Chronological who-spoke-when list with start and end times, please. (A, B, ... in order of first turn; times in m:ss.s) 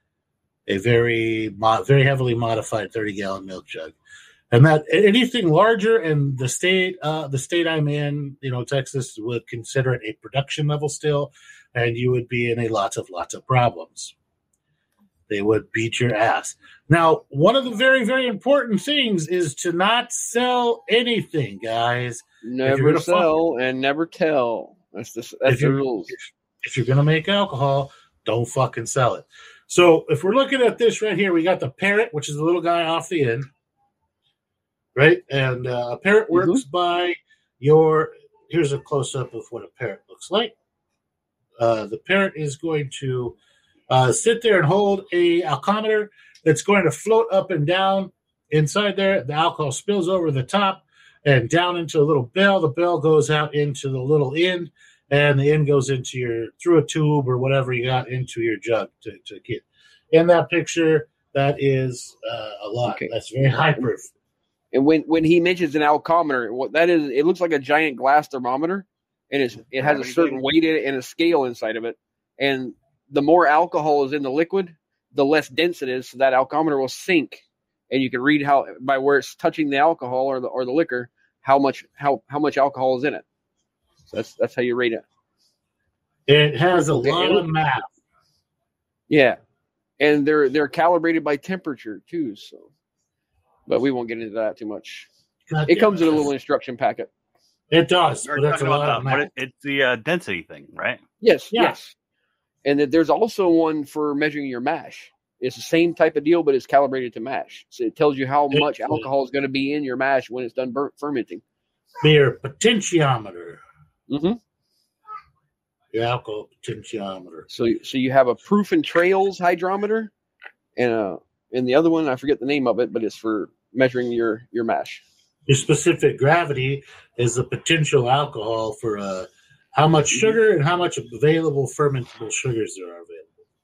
0:00.7-0:03.9 A
0:04.5-0:14.1 A
0:15.3-0:23.3 A
0:22.4-0:26.1 B
0:25.4-0:33.5 A
0:34.9-0:40.5 A
0:36.3-0:36.6 B
0:41.6-0:43.4 A
0:43.9-1:04.1 A
1:02.8-1:03.1 B
1:04.7-1:23.2 B
1:24.1-1:25.0 B
1:26.3-1:27.9 A
1:26.7-1:27.4 B
1:29.1-1:29.4 B
1:30.0-1:32.7 B
1:33.7-1:35.1 B
1:35.5-1:36.3 A
1:35.7-1:37.1 B
1:37.7-1:39.3 A
1:38.2-1:41.0 C
1:41.2-1:41.9 B
1:41.5-1:41.8 A
1:42.6-1:51.4 B
1:48.5-1:49.0 A
1:52.0-1:53.6 A
1:54.1-1:54.4 B
1:55.9-1:57.4 A
1:57.5-2:00.1 B
2:00.8-2:05.0 B
2:05.5-2:13.3 A